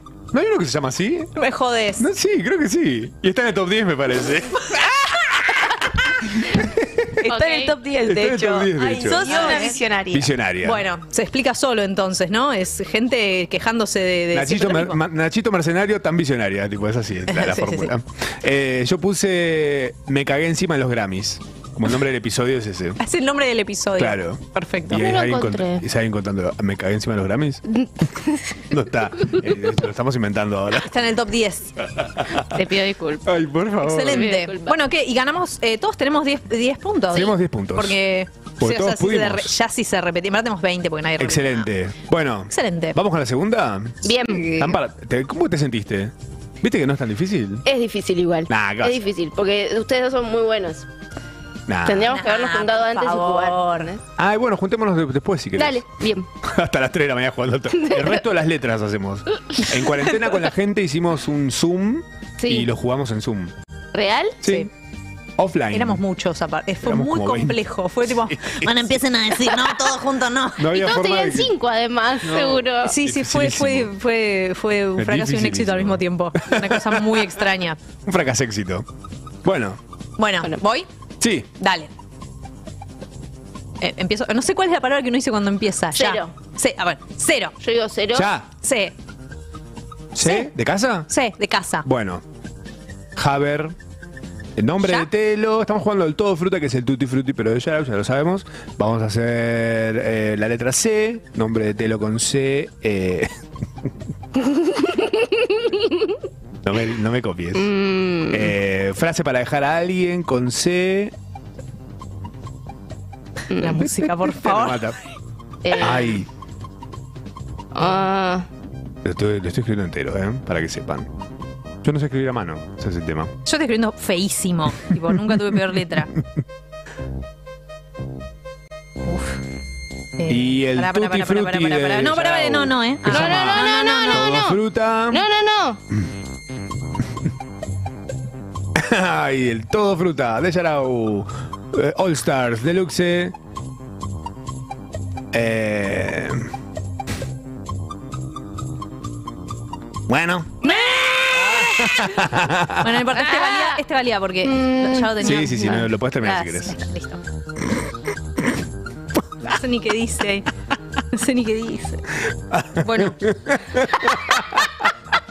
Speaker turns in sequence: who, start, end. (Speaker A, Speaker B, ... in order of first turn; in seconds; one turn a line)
Speaker A: 0.3-1.3
Speaker B: 1.4-2.1
Speaker A: 2.0-7.3
Speaker B: 7.2-15.0
Speaker C: 7.3-7.8
Speaker A: 8.0-10.8
Speaker C: 9.1-9.8
Speaker A: 14.3-23.0
Speaker B: 17.3-17.9
Speaker B: 23.0-25.1
Speaker A: 24.0-27.6
Speaker C: 24.9-25.9
Speaker C: 27.7-28.4
Speaker A: 28.7-30.9
Speaker B: 30.8-31.7
Speaker A: 32.0-32.5
Speaker C: 32.5-33.3
Speaker A: 33.2-34.3
Speaker B: 33.8-41.7
Speaker C: 34.0-34.8
Speaker A: 37.1-38.0
Speaker A: 38.6-39.5
Speaker A: 41.2-47.6
Speaker B: 42.5-43.0
Speaker C: 44.0-44.6
Speaker B: 44.3-44.7
Speaker C: 47.7-50.9
Speaker A: 48.5-49.1
Speaker A: 51.7-52.1
Speaker C: 51.9-54.0
Speaker B: 52.0-53.9
Speaker A: 54.2-55.9
Speaker C: 55.6-56.3
Speaker A: 56.4-63.5
Speaker C: 62.4-62.7
Speaker C: 63.9-64.4
Speaker A: 64.4-64.7
Speaker A: 65.4-66.0
Speaker B: 65.7-70.8
Speaker A: 66.8-68.9
Speaker A: 70.6-71.5
Speaker C: 70.7-73.0
Speaker A: 72.2-73.9
Speaker B: 72.8-77.8
Speaker A: 75.0-77.4
Speaker A: 78.0-78.9
Speaker A: 79.4-79.8
Speaker B: 80.2-80.9
Speaker A: 81.2-81.5
Speaker B: 81.6-81.9
Speaker B: 83.8-87.5
Speaker C: 85.9-86.3
Speaker C: 87.6-88.3
Speaker A: 88.1-88.5
Speaker B: 88.6-88.9
Speaker A: 90.1-91.1
Speaker B: 90.2-90.5
Speaker B: 91.1-91.9
Speaker A: 91.8-92.2
Speaker A: 93.2-93.8
Speaker A: 94.6-103.3
Speaker C: 104.6-105.2
Speaker A: 106.6-107.7
Speaker C: 107.5-108.5
Speaker A: 108.3-111.1
Speaker C: 113.5-113.8
Speaker B: 113.6-114.8
Speaker A: 113.8-115.0
Speaker C: 115.6-116.2
Speaker A: 115.8-116.3
Speaker C: 117.7-118.5
Speaker A: 119.0-121.1
Speaker A: 121.8-123.3
Speaker B: 123.5-126.1
Speaker B: 129.1-129.4
Speaker B: 130.2-134.4
Speaker A: 130.3-135.2
Speaker C: 133.1-135.8
Speaker A: 138.8-143.3
Speaker A: 145.3-146.5
Speaker A: 150.1-152.9
Speaker C: 150.6-151.2
Speaker B: 151.4-152.0
Speaker B: 152.8-157.2
Speaker C: 153.2-153.8
Speaker C: 154.4-155.9
Speaker A: 155.2-156.7
Speaker B: 159.5-160.5
Speaker B: 161.1-162.0
Speaker A: 162.5-164.7
Speaker B: 162.8-163.2